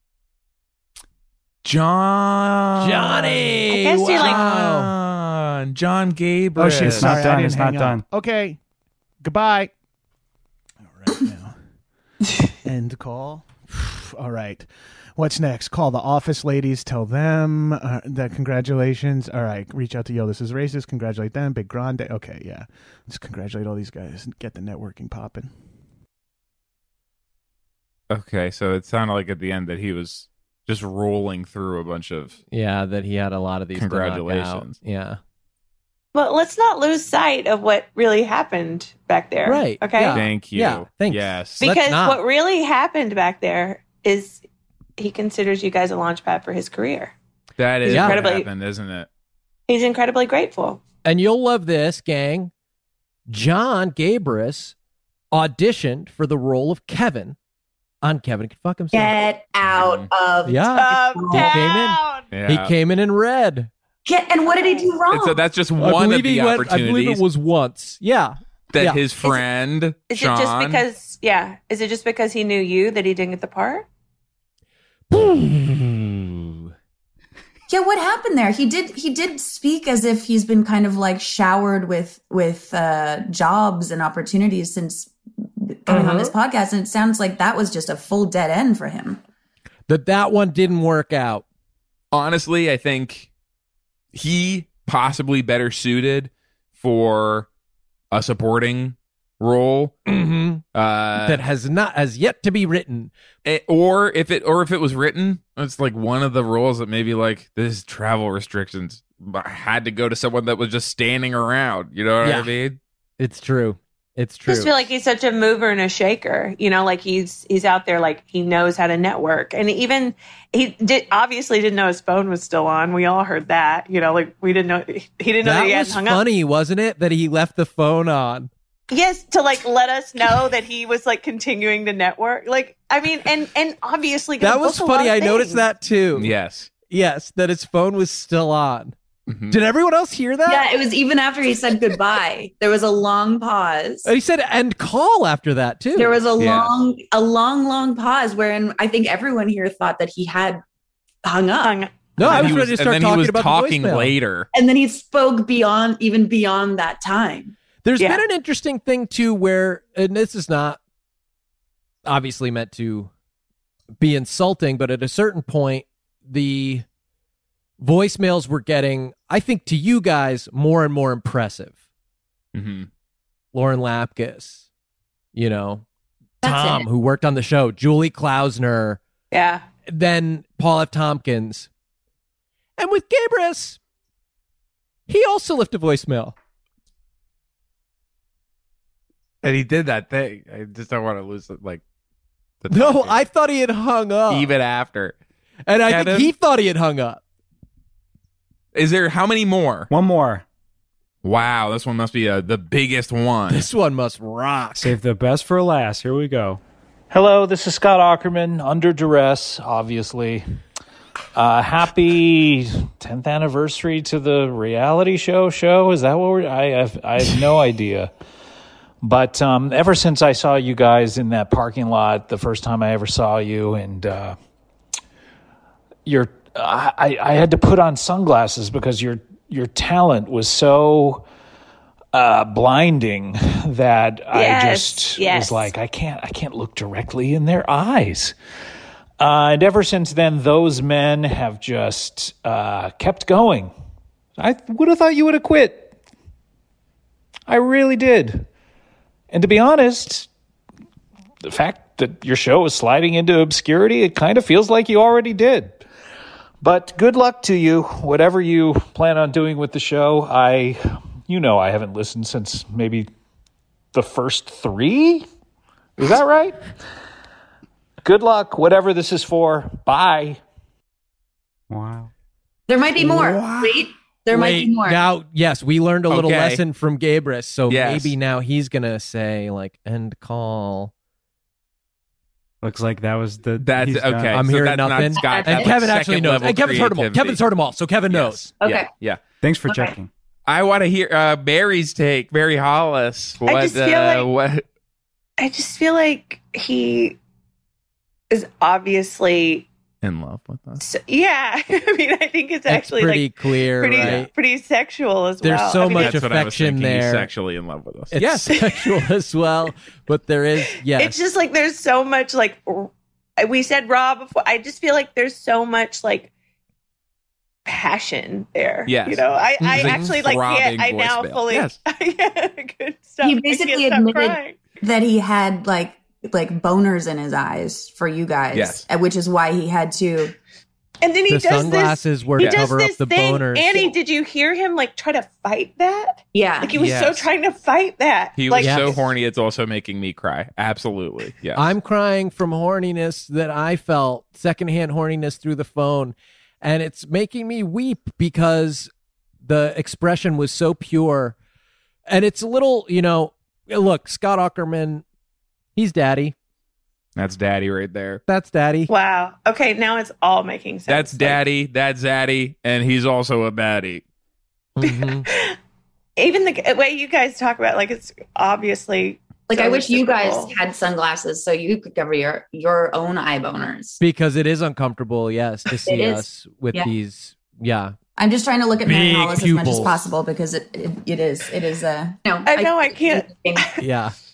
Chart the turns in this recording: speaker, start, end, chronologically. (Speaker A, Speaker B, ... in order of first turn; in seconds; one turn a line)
Speaker A: 1.6-3.4
Speaker B: 2.8-4.9
Speaker C: 3.7-4.4
Speaker A: 4.2-7.2
Speaker D: 6.6-8.0
Speaker E: 6.6-8.6
Speaker E: 9.2-9.7
Speaker E: 10.9-11.6
Speaker E: 12.6-25.5
Speaker A: 28.1-32.4
Speaker B: 32.5-35.2
Speaker A: 33.7-34.7
Speaker C: 36.1-40.2
Speaker B: 39.5-42.2
Speaker A: 40.1-41.6
Speaker C: 41.6-44.4
Speaker C: 45.0-47.1
Speaker A: 47.6-49.1
Speaker C: 47.8-48.5
Speaker B: 47.9-48.2
Speaker C: 49.7-50.8
Speaker B: 51.0-52.5
Speaker B: 53.3-54.7
Speaker B: 55.3-57.4
Speaker B: 58.0-59.2
Speaker F: 58.9-61.7
Speaker A: 59.7-60.1
Speaker B: 60.5-63.7
Speaker C: 60.8-62.2
Speaker A: 62.3-62.7
Speaker F: 64.0-65.4
Speaker A: 65.1-67.2
Speaker B: 65.8-69.0
Speaker A: 68.7-70.8
Speaker C: 70.1-73.8
Speaker B: 75.1-76.7
Speaker F: 77.7-89.2
Speaker B: 89.9-91.4
Speaker A: 92.1-93.3
Speaker A: 94.1-97.5
Speaker A: 98.1-100.0
Speaker B: 100.0-100.6
Speaker A: 100.7-101.4
Speaker B: 101.2-103.1
Speaker A: 103.4-112.8
Speaker B: 112.2-112.5
Speaker B: 113.2-114.8
Speaker C: 114.5-126.2
Speaker B: 125.4-128.5
Speaker C: 128.9-135.7
Speaker B: 134.4-136.3
Speaker A: 136.1-136.7
Speaker B: 136.9-138.9
Speaker A: 139.3-139.6
Speaker B: 139.5-140.7
Speaker F: 140.5-144.1
Speaker B: 144.0-146.1
Speaker F: 145.9-150.6
Speaker A: 146.4-146.7
Speaker F: 151.2-151.8
Speaker C: 151.6-151.9
Speaker B: 152.2-154.1
Speaker A: 152.2-154.5
Speaker F: 154.5-157.5
Speaker B: 157.8-160.8
Speaker C: 158.0-158.2
Speaker B: 162.1-163.1
Speaker B: 164.0-166.8
Speaker B: 167.8-171.8
Speaker A: 172.5-172.9
Speaker B: 173.5-174.6
Speaker B: 175.3-175.8
Speaker F: 176.4-176.9
Speaker B: 176.4-179.0
Speaker C: 179.3-179.6
Speaker B: 179.9-181.7
Speaker B: 182.8-183.8
Speaker B: 185.1-186.3
Speaker A: 189.4-191.8
Speaker A: 192.6-193.2
Speaker B: 192.7-194.5
Speaker A: 194.3-195.2
Speaker B: 195.7-197.2
Speaker A: 195.9-196.3
Speaker A: 198.7-199.9
Speaker D: 199.9-200.4
Speaker A: 201.2-203.7
Speaker B: 203.5-204.9
Speaker D: 204.8-206.6
Speaker G: 207.1-210.4
Speaker G: 211.3-218.1
Speaker G: 219.0-224.4
Speaker G: 226.0-231.3
Speaker G: 232.1-238.3
Speaker C: 234.3-235.7
Speaker G: 239.2-243.7
Speaker G: 244.4-245.9
Speaker G: 247.5-248.5
Speaker G: 249.3-250.3
Speaker G: 251.4-255.8
Speaker G: 256.6-263.1
Speaker G: 263.9-265.2
Speaker G: 266.0-266.6
Speaker G: 268.0-270.4
Speaker D: 271.7-272.1
Speaker F: 272.7-275.0
Speaker A: 273.0-273.8
Speaker B: 274.3-280.9
Speaker A: 276.1-276.6
Speaker A: 277.7-278.1
Speaker D: 282.6-284.4
Speaker A: 283.6-287.4
Speaker B: 284.3-288.5
Speaker F: 285.2-285.7
Speaker A: 288.1-289.2
Speaker F: 288.6-288.9
Speaker D: 289.4-290.1
Speaker F: 289.7-289.9
Speaker A: 290.5-294.6
Speaker C: 293.4-294.3
Speaker C: 295.4-297.2
Speaker C: 298.3-299.7
Speaker A: 300.0-300.8
Speaker C: 300.8-306.2
Speaker B: 302.7-304.3
Speaker A: 304.0-304.2
Speaker B: 305.4-307.3
Speaker A: 305.9-308.5
Speaker B: 308.1-311.2
Speaker C: 310.9-316.3
Speaker C: 317.6-324.6
Speaker A: 318.9-321.8
Speaker B: 319.6-320.1
Speaker F: 323.2-330.4
Speaker A: 328.5-328.9
Speaker C: 331.0-339.1
Speaker B: 331.3-333.9
Speaker F: 336.3-336.7
Speaker A: 336.7-337.3
Speaker A: 338.4-341.7
Speaker B: 338.6-339.0
Speaker B: 341.6-348.9
Speaker B: 349.4-351.4
Speaker B: 352.1-355.0
Speaker B: 355.8-356.3
Speaker A: 357.1-358.2
Speaker B: 358.3-358.9
Speaker C: 358.9-361.4
Speaker A: 360.9-364.0
Speaker B: 364.8-365.2
Speaker C: 364.8-365.6
Speaker C: 366.2-370.5
Speaker F: 369.5-374.0
Speaker B: 374.0-377.9
Speaker F: 375.8-376.9
Speaker F: 378.1-383.7
Speaker B: 378.8-380.0
Speaker C: 382.4-383.7
Speaker B: 383.8-384.1